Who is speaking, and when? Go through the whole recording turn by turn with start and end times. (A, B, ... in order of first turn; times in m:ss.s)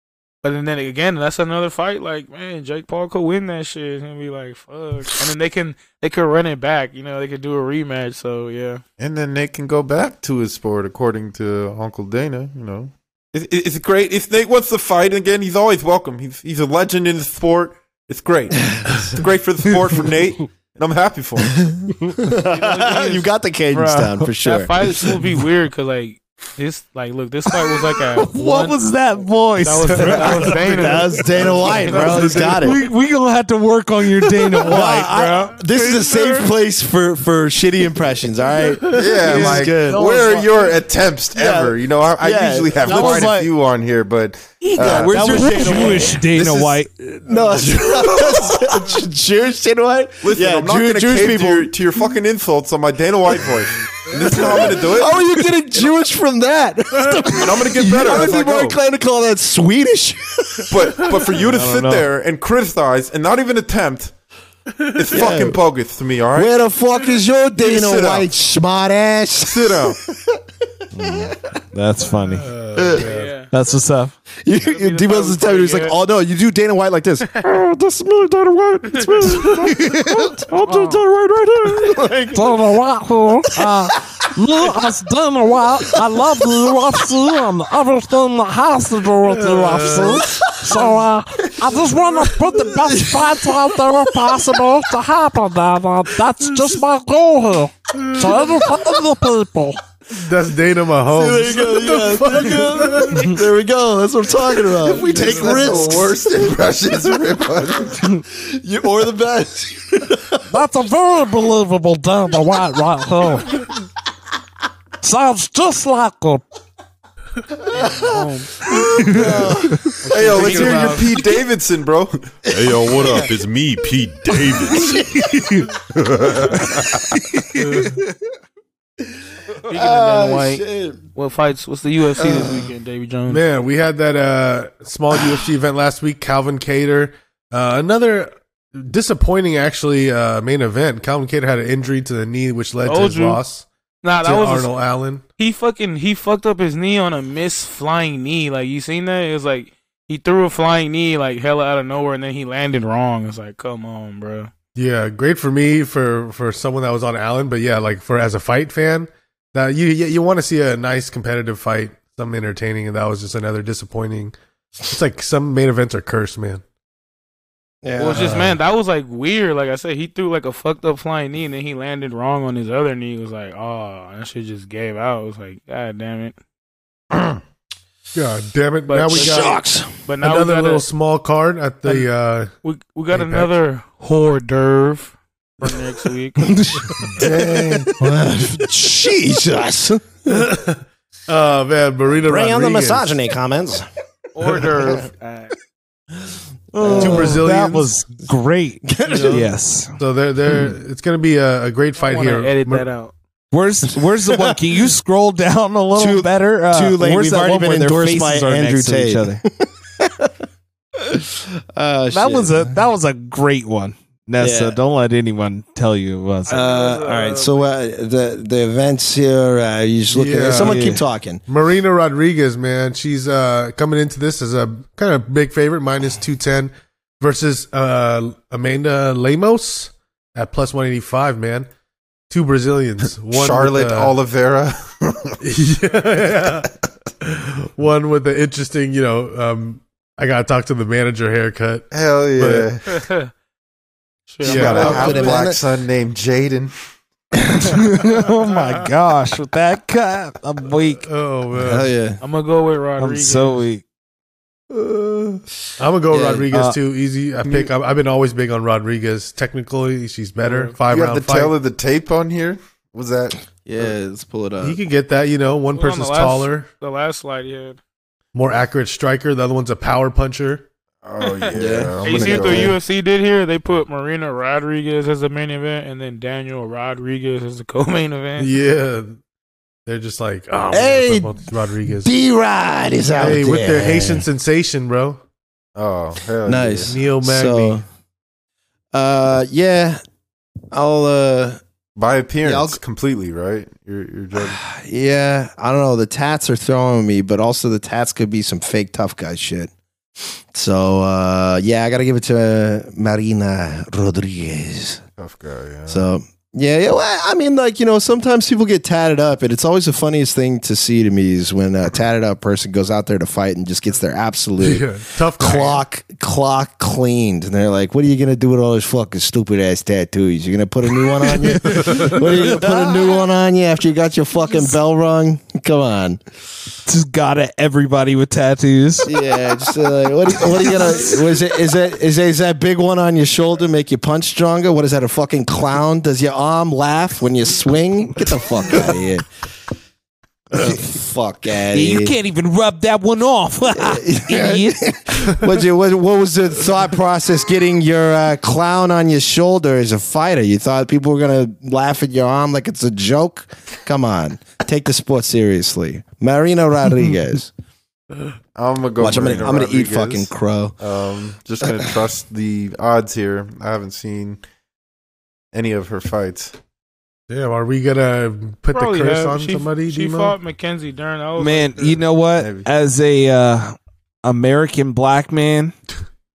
0:00.4-0:08.8 A
0:09.0-0:21.7 B
0:21.6-0:24.7 C
0:22.4-0:23.3 A
0:23.7-0:24.3 D
0:24.4-0:28.8 A
0:28.2-0:31.4 D
0:29.6-0:32.6 A
0:29.9-0:30.4 E
0:30.0-0:32.8 C
0:31.6-0:32.8 E
0:32.4-0:35.6 D
0:34.6-0:40.3 C
0:38.8-0:39.9 E
0:38.9-0:46.7 B
0:41.3-0:43.5 C
0:42.8-0:43.4 D
0:44.8-0:51.8 C
0:44.8-0:46.9 D
0:47.8-0:48.7 B
0:50.2-0:55.2 B
0:54.2-1:01.2 C
0:57.3-0:58.7 B
1:00.7-1:04.1 B
1:01.4-1:02.1 D
1:04.8-1:05.2 E
1:05.0-1:06.5 B
1:05.1-1:05.6 C
1:06.3-1:10.4 C
1:07.6-1:08.3 B
1:09.4-1:10.0 B
1:10.9-1:12.5 D
1:11.0-1:11.4 C
1:12.4-1:13.3 E
1:12.8-1:13.0 C
1:13.0-1:13.5 A
1:13.5-1:14.2 D
1:14.4-1:22.5 C
1:14.6-1:16.0 A
1:19.4-1:21.0 D
1:21.9-1:39.8 D
1:23.6-1:24.3 C
1:26.0-1:26.5 C
1:29.2-1:30.9 E
1:30.0-1:30.4 C
1:32.7-1:33.4 C
1:34.0-1:34.4 C
1:37.9-1:38.5 E
1:40.1-1:43.2 E
1:41.1-1:46.2 C
1:44.9-1:48.1 B
1:45.0-1:45.6 E
1:48.2-1:50.6 C
1:50.5-1:53.6 D
1:55.0-1:56.4 D
1:57.7-1:58.1 C
1:57.7-1:58.6 A
1:58.6-1:59.9 C
1:59.0-1:59.9 D
2:00.0-2:01.1 A
2:00.1-2:05.0 B
2:00.3-2:01.0 E
2:02.5-2:03.3 C
2:04.5-2:05.4 C
2:05.2-2:05.7 D
2:05.9-2:07.2 B
2:07.2-2:07.8 D
2:07.6-2:08.0 E
2:09.0-2:11.0 C
2:09.6-2:13.4 A
2:12.2-2:12.6 C
2:13.3-2:23.7 E
2:22.8-2:23.4 A
2:24.0-2:24.7 A
2:24.2-2:25.2 E
2:25.4-2:34.5 A
2:34.8-2:46.6 E
2:47.8-2:48.5 C
2:48.0-2:56.4 A
2:48.2-2:48.6 E
2:57.1-2:57.4 B
2:58.1-2:59.6 E
2:58.9-3:00.8 A
2:59.1-2:59.9 C
3:00.2-3:02.5 E
3:02.6-3:06.5 A
3:03.1-3:03.5 E
3:07.0-3:07.9 E
3:07.1-3:10.5 C
3:10.3-3:13.2 E
3:12.2-3:13.8 C
3:14.4-3:15.6 A
3:16.7-3:20.0 D
3:16.8-3:17.4 C
3:16.9-3:18.1 E
3:18.8-3:19.5 C
3:19.1-3:19.4 A
3:20.0-3:22.9 E
3:22.0-3:23.1 A
3:23.5-3:29.4 D
3:24.3-3:24.5 C
3:26.0-3:30.3 C
3:31.0-3:32.7 C
3:32.1-3:36.6 D
3:34.4-3:34.8 C
3:36.5-3:37.7 A
3:36.5-3:41.4 C
3:40.1-3:40.8 E
3:40.6-3:41.0 D
3:41.5-3:51.7 E
3:52.3-3:54.2 E
3:53.3-3:55.4 B
3:55.4-3:56.7 E
3:57.2-4:01.8 E
4:01.9-4:02.8 B
4:02.4-4:02.7 E
4:02.9-4:03.3 A
4:04.3-4:05.4 A
4:04.4-4:06.7 B
4:04.4-4:05.2 E
4:04.7-4:05.6 C
4:07.6-4:11.0 D
4:11.0-4:11.9 E
4:11.5-4:12.2 C
4:12.2-4:13.7 A
4:13.0-4:13.8 D
4:14.7-4:15.4 C
4:15.8-4:21.6 E
4:16.1-4:16.5 C
4:17.4-4:17.7 B
4:20.4-4:20.8 A
4:20.9-4:23.4 B
4:23.6-4:24.8 C
4:24.6-4:26.7 E
4:25.8-4:27.8 A
4:28.3-4:30.7 E
4:31.0-4:32.8 B
4:31.2-4:31.5 A
4:31.5-4:32.8 C
4:32.0-4:38.5 A
4:38.4-4:39.2 E
4:39.9-4:42.1 E
4:40.7-4:41.4 C
4:42.0-4:44.3 C
4:43.2-4:45.2 E
4:45.8-4:47.0 B
4:46.4-4:47.8 C
4:46.9-4:47.8 E
4:48.9-4:50.0 C
4:50.7-4:51.6 C
4:52.0-4:54.6 B
4:52.4-4:52.8 C
4:54.4-5:05.0 C
5:05.2-5:06.1 B
5:05.9-5:26.2 C
5:14.6-5:15.8 E
5:21.5-5:23.2 D
5:21.6-5:22.2 E
5:26.9-5:29.2 D
5:29.0-5:39.3 C
5:40.5-5:42.2 C
5:41.7-5:44.8 D
5:43.7-5:57.5 C
5:58.6-6:04.4 B
5:59.0-6:00.8 C
6:01.6-6:01.9 C
6:05.5-6:06.6 B
6:07.3-6:10.4 E
6:08.7-6:12.0 A
6:11.4-6:15.8 D
6:12.4-6:12.7 B